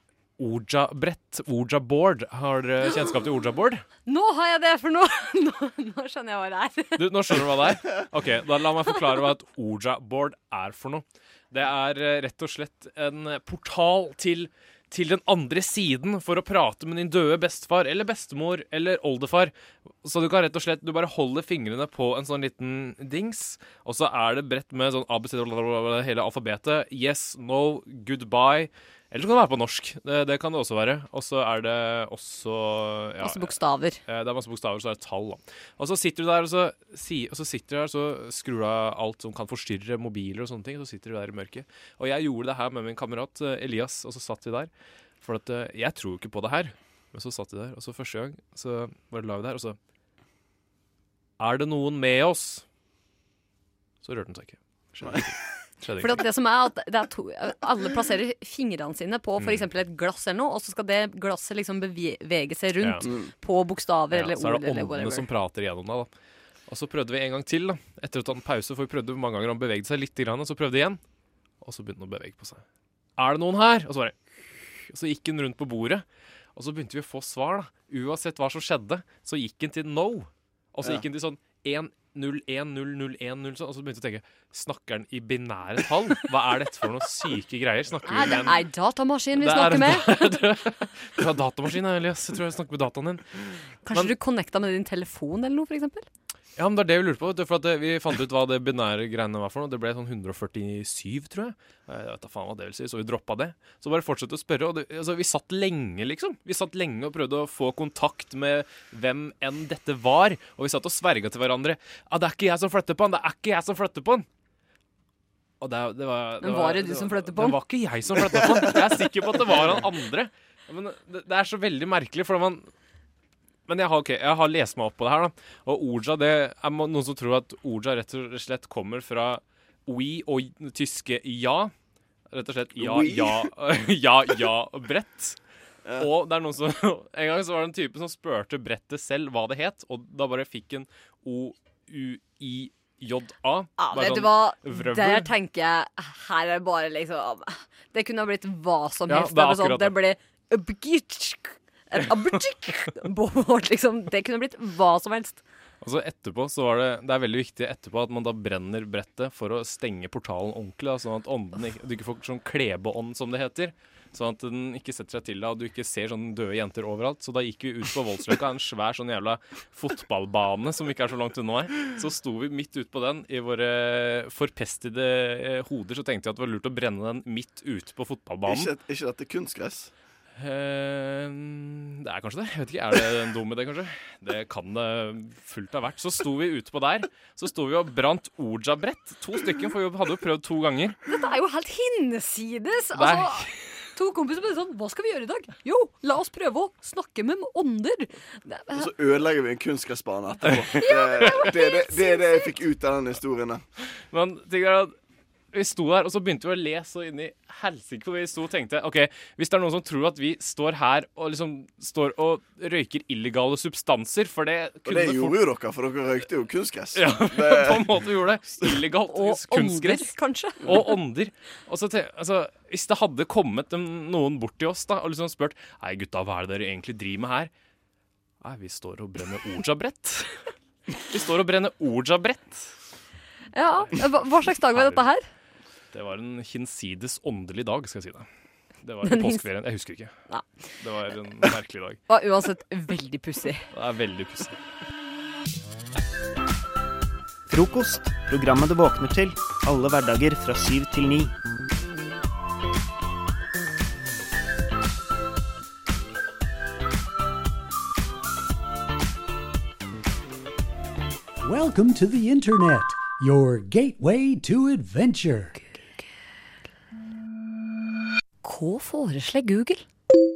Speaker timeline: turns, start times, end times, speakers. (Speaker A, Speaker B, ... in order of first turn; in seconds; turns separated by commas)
Speaker A: 0.4-3.8, Speaker B: 4.1-7.0, Speaker A: 7.0-33.5, Speaker B: 33.2-34.0, Speaker A: 34.1-49.8, Speaker A: 51.4-52.6, Speaker A: 54.0-56.2, Speaker B: 56.0-65.3, Speaker A: 59.4-59.7, Speaker A: 62.8-63.1, Speaker C: 63.0-63.3, Speaker A: 64.1-66.1, Speaker A: 66.7-71.0, Speaker A: 71.6-72.6, Speaker A: 73.2-76.0, Speaker A: 76.6-88.7, Speaker B: 88.1-90.4, Speaker A: 89.4-94.1, Speaker B: 93.9-96.1, Speaker A: 96.6-114.3, Speaker A: 115.6-122.7, Speaker B: 116.4-117.6, Speaker C: 118.3-118.7, Speaker A: 123.7-131.7, Speaker A: 132.3-135.4, Speaker C: 132.8-133.5, Speaker C: 135.8-136.1, Speaker A: 136.0-145.3, Speaker B: 143.8-155.4, Speaker A: 149.1-150.0, Speaker A: 155.8-178.7, Speaker C: 178.5-179.9, Speaker A: 180.4-191.0, Speaker B: 191.1-198.9, Speaker A: 192.9-193.5, Speaker C: 198.7-203.6, Speaker B: 200.8-202.6, Speaker A: 204.1-204.9, Speaker A: 205.5-215.4, Speaker C: 214.9-218.0, Speaker A: 216.9-220.1, Speaker B: 219.1-220.9, Speaker A: 220.6-227.5, Speaker A: 228.4-230.4, Speaker A: 231.0-232.7, Speaker B: 233.5-235.3, Speaker A: 233.8-235.1, Speaker A: 235.9-238.3, Speaker A: 238.8-240.1, Speaker B: 239.1-239.4, Speaker A: 240.8-242.0, Speaker B: 242.1-243.7, Speaker A: 243.7-244.7, Speaker D: 247.5-251.3, Speaker E: 261.4-265.6, Speaker B: 268.4-269.9